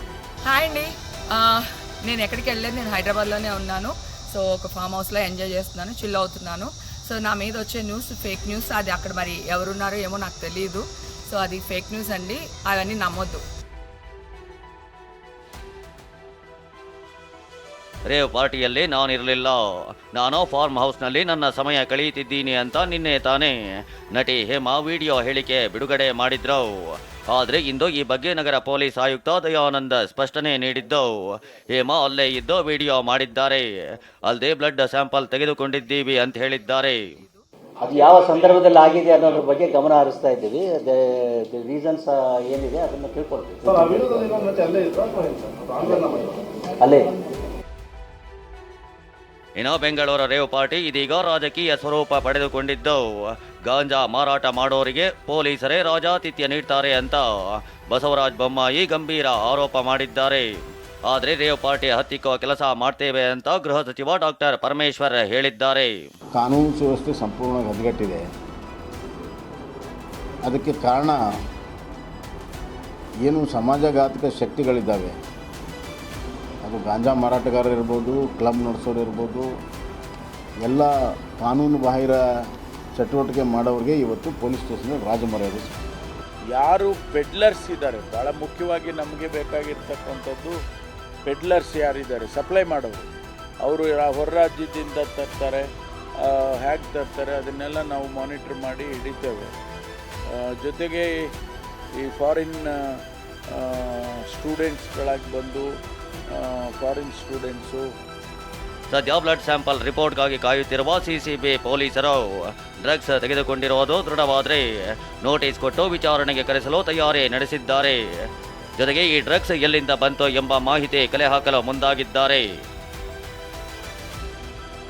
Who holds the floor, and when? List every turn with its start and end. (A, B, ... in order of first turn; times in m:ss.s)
0:00.4-0:13.4 A
0:18.1-0:19.6 B
0:20.1-0:23.5 B
0:24.1-0:26.6 B
0:27.3-0:31.1 B
0:31.7-0:33.6 B
0:34.3-0:37.2 B
0:37.8-0:45.0 C
0:45.6-0:47.1 C
0:49.6-0:53.0 B
0:53.7-0:57.2 B
0:57.9-1:00.5 B
1:01.1-1:05.9 B
1:06.4-1:08.2 D
1:10.4-1:11.2 D
1:13.2-1:15.1 D
1:16.6-1:19.5 D
1:20.6-1:22.2 D
1:23.0-1:25.8 D
1:26.5-1:30.6 E
1:31.2-1:33.1 E
1:33.6-1:39.5 E
1:40.3-1:41.3 E
1:42.0-1:45.7 E
1:46.3-1:47.9 E
1:48.9-1:52.2 B
1:52.8-1:54.6 B
1:55.2-1:58.0 B
1:58.8-2:02.5 B